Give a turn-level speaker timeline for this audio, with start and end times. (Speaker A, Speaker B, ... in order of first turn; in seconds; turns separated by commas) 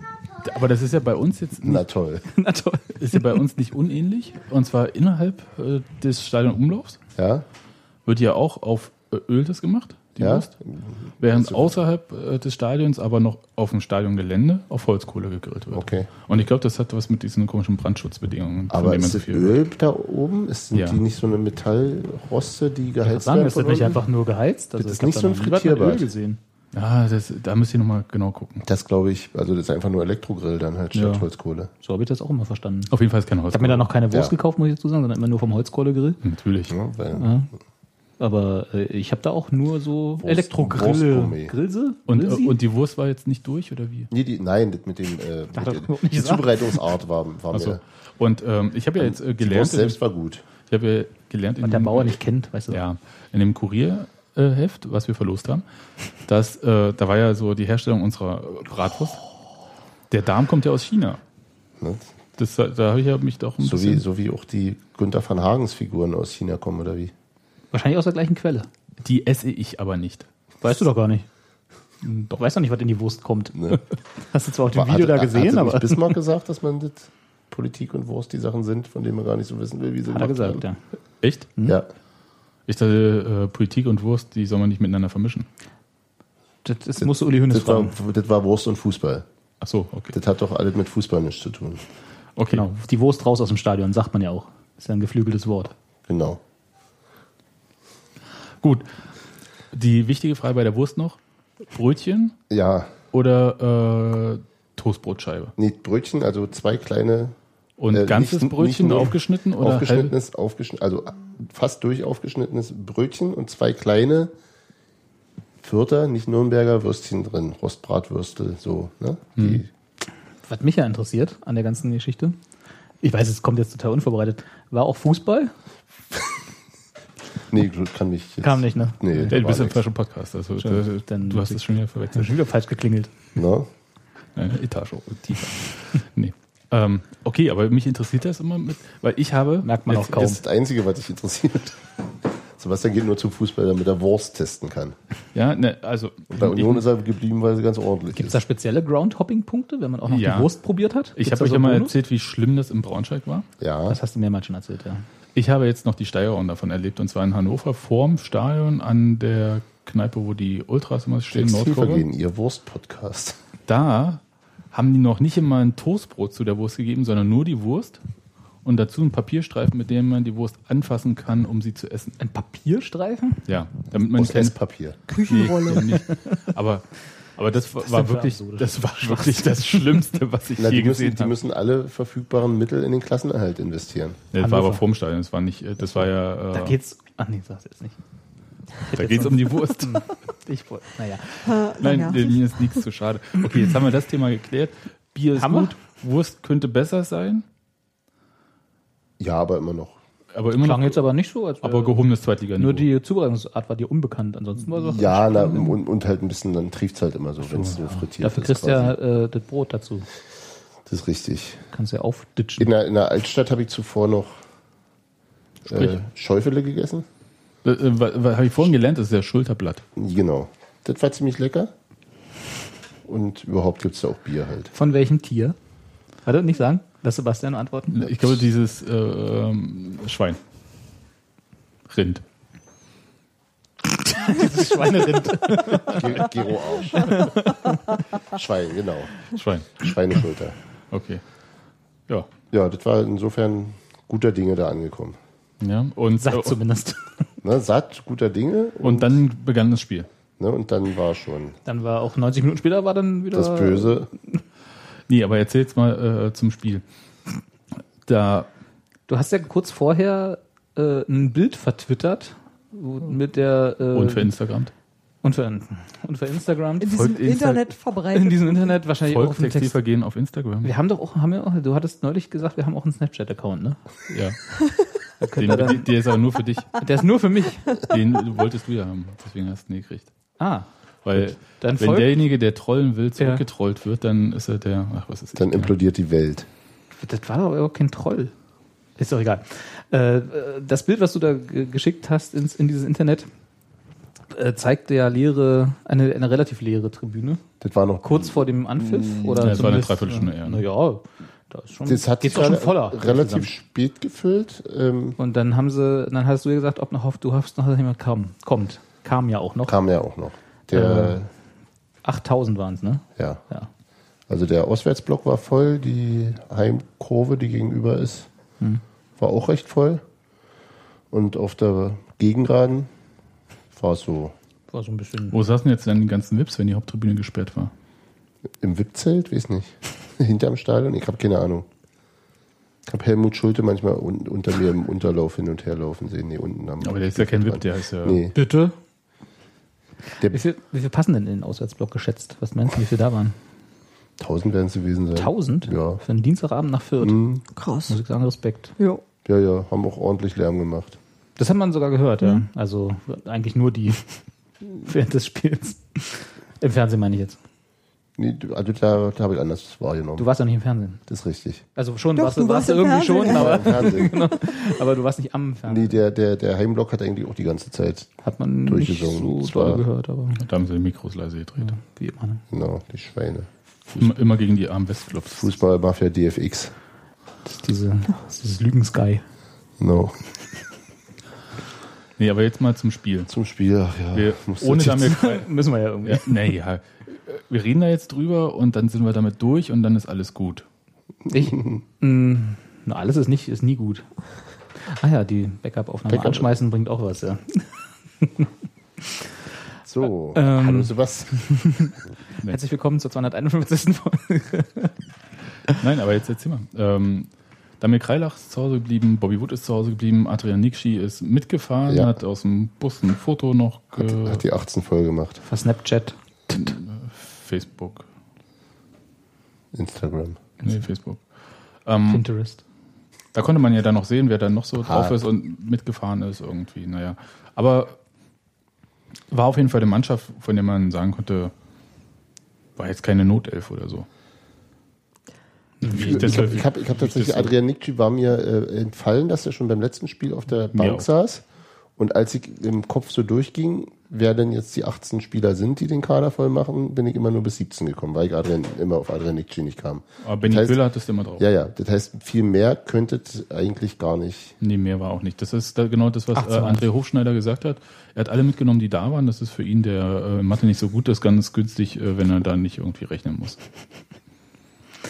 Speaker A: 0.4-1.9, Speaker B: 1.6-2.3, Speaker C: 2.3-3.2, Speaker A: 3.0-7.0, Speaker B: 7.2-7.5, Speaker A: 8.1-10.5, Speaker B: 10.2-11.8, Speaker A: 11.2-19.6, Speaker B: 15.7-16.1, Speaker B: 18.7-24.0, Speaker A: 20.7-21.0, Speaker C: 23.0-26.4, Speaker B: 24.8-26.1, Speaker A: 26.7-28.6, Speaker B: 28.6-31.7, Speaker C: 30.9-31.3, Speaker C: 31.8-32.9, Speaker A: 32.9-33.9, Speaker C: 33.5-36.2, Speaker A: 36.2-36.8, Speaker B: 36.7-37.4, Speaker C: 37.1-37.5, Speaker C: 38.2-42.6, Speaker B: 40.2-41.5, Speaker A: 42.1-44.1, Speaker B: 44.1-47.8, Speaker C: 45.5-46.8, Speaker A: 47.5-50.0, Speaker B: 49.0-50.5, Speaker A: 50.7-52.2, Speaker C: 51.6-52.8, Speaker A: 52.7-55.6, Speaker A: 56.3-59.2, Speaker A: 60.1-61.2, Speaker B: 61.8-62.1, Speaker A: 62.4-64.0, Speaker B: 63.6-67.1, Speaker C: 67.7-68.7, Speaker A: 69.0-70.3, Speaker C: 70.6-71.3, Speaker C: 72.0-76.2, Speaker B: 73.5-73.8, Speaker B: 74.7-80.6, Speaker C: 80.1-80.8, Speaker A: 81.2-81.5, Speaker A: 82.7-85.5, Speaker C: 86.7-88.0, Speaker B: 87.0-89.2, Speaker A: 89.6-90.2, Speaker B: 90.1-91.8, Speaker A: 92.4-92.6, Speaker C: 92.5-95.7, Speaker B: 96.1-96.4, Speaker A: 99.7-101.2, Speaker A: 101.7-102.4, Speaker B: 102.5-102.9, Speaker A: 103.1-105.5, Speaker B: 105.6-107.3, Speaker A: 107.8-110.1, Speaker B: 107.9-114.3, Speaker B: 115.6-119.7, Speaker A: 119.4-119.6, Speaker C: 120.5-122.4, Speaker C: 123.0-125.5, Speaker B: 127.5-129.8, Speaker C: 128.4-129.4, Speaker A: 129.3-132.3, Speaker C: 130.6-133.1, Speaker B: 133.4-133.7, Speaker A: 134.4-140.4, Speaker C: 139.6-140.4, Speaker B: 140.1-145.0, Speaker A: 145.3-146.8, Speaker B: 146.3-148.4, Speaker C: 148.1-151.9, Speaker A: 150.1-150.6, Speaker A: 151.2-153.5, Speaker B: 153.6-154.0, Speaker C: 153.9-155.1, Speaker A: 155.3-162.1, Speaker B: 161.3-163.4, Speaker A: 163.7-164.2, Speaker A: 164.7-168.0, Speaker A: 168.7-172.2, Speaker C: 172.2-173.4, Speaker A: 173.5-174.6, Speaker B: 174.2-175.0, Speaker A: 175.1-181.3, Speaker D: 175.1-175.9, Speaker C: 175.7-176.5, Speaker C: 177.8-180.0, Speaker B: 180.6-184.2, Speaker A: 184.3-186.8, Speaker C: 184.4-184.8, Speaker C: 186.5-188.0, Speaker C: 188.8-191.7, Speaker A: 188.9-190.1, Speaker D: 191.5-192.4, Speaker A: 191.8-197.5, Speaker C: 195.4-195.7, Speaker B: 199.2-200.0, Speaker A: 200.3-201.0, Speaker C: 200.6-202.0, Speaker A: 201.6-202.9, Speaker C: 202.6-205.8, Speaker B: 204.8-208.9, Speaker C: 208.0-210.1, Speaker B: 210.9-211.6, Speaker C: 211.7-212.7, Speaker B: 212.6-214.4, Speaker B: 215.7-217.1, Speaker A: 217.6-219.8, Speaker B: 220.0-221.7, Speaker B: 223.1-224.7, Speaker C: 224.7-225.6, Speaker C: 226.3-228.1, Speaker A: 227.9-230.4, Speaker A: 231.9-232.2, Speaker C: 234.2-236.3, Speaker A: 234.4-236.3, Speaker B: 235.9-237.3, Speaker C: 236.9-237.9, Speaker B: 238.3-239.2, Speaker A: 239.3-239.9, Speaker B: 239.8-240.6, Speaker A: 240.9-241.2, Speaker B: 242.5-245.2, Speaker A: 245.6-246.6, Speaker C: 246.2-247.3, Speaker B: 247.4-249.1, Speaker A: 248.8-250.1, Speaker B: 250.4-251.6, Speaker C: 251.7-254.1, Speaker B: 253.3-254.1, Speaker A: 255.1-256.8, Speaker A: 258.1-258.5, Speaker C: 259.1-264.4, Speaker A: 263.9-264.7, Speaker C: 265.2-267.2, Speaker D: 266.8-268.8, Speaker A: 266.9-267.7, Speaker C: 268.1-269.8, Speaker A: 269.1-270.7, Speaker C: 270.6-273.8, Speaker A: 274.1-274.4, Speaker C: 275.2-275.9, Speaker A: 275.4-276.9, Speaker C: 276.8-277.8, Speaker A: 277.8-280.1, Speaker C: 280.4-282.2, Speaker A: 281.1-285.7, Speaker C: 283.2-283.4, Speaker B: 285.4-286.5, Speaker C: 286.9-288.3, Speaker C: 289.0-293.3, Speaker C: 294.3-297.4, Speaker B: 297.6-299.6, Speaker C: 298.0-303.5, Speaker A: 299.4-300.6, Speaker B: 301.9-305.2, Speaker C: 305.2-309.8, Speaker B: 309.7-311.3, Speaker C: 310.7-311.2, Speaker C: 312.0-313.7, Speaker B: 313.2-313.4, Speaker B: 314.3-318.3, Speaker B: 319.2-320.0, Speaker B: 321.1-322.9, Speaker B: 323.7-324.4, Speaker C: 324.7-325.4, Speaker A: 325.3-327.7, Speaker B: 328.6-331.7, Speaker B: 332.9-338.4, Speaker A: 336.8-338.3, Speaker C: 338.3-338.8, Speaker C: 340.2-343.4, Speaker B: 344.2-346.0, Speaker C: 345.2-347.2, Speaker B: 347.0-347.4, Speaker D: 347.6-348.0, Speaker C: 347.9-348.8, Speaker B: 349.2-351.0, Speaker C: 351.4-357.4, Speaker B: 358.2-360.3, Speaker C: 360.2-361.0, Speaker B: 361.1-361.6, Speaker C: 361.8-366.0, Speaker D: 362.2-364.1, Speaker B: 363.3-364.1, Speaker B: 365.7-368.1, Speaker C: 368.2-370.4, Speaker B: 368.7-369.8, Speaker A: 370.4-371.8, Speaker C: 371.6-372.4, Speaker B: 372.5-373.5, Speaker A: 373.9-375.5, Speaker B: 375.3-376.7, Speaker C: 377.4-379.2, Speaker B: 379.8-380.2, Speaker A: 382.2-383.3, Speaker B: 383.3-385.2, Speaker A: 384.1-385.5, Speaker C: 385.0-386.4, Speaker A: 386.0-390.7, Speaker C: 391.3-394.1, Speaker B: 391.4-391.8, Speaker C: 394.7-399.3, Speaker B: 396.1-396.5, Speaker B: 399.9-401.3, Speaker C: 400.3-404.9, Speaker A: 405.7-414.4, Speaker B: 411.9-412.1, Speaker B: 414.0-415.4, Speaker C: 415.4-416.2, Speaker A: 416.5-418.1, Speaker B: 419.7-420.4, Speaker A: 420.6-421.2, Speaker A: 421.9-422.2, Speaker C: 422.1-422.6, Speaker A: 423.3-428.0, Speaker B: 424.8-425.2, Speaker A: 429.3-431.5, Speaker A: 432.8-434.1, Speaker C: 435.8-436.6, Speaker A: 435.9-437.5, Speaker B: 435.9-441.4, Speaker A: 440.7-441.1, Speaker B: 442.0-450.8, Speaker A: 450.2-451.4, Speaker B: 451.4-454.6, Speaker A: 454.6-463.6, Speaker C: 456.4-456.8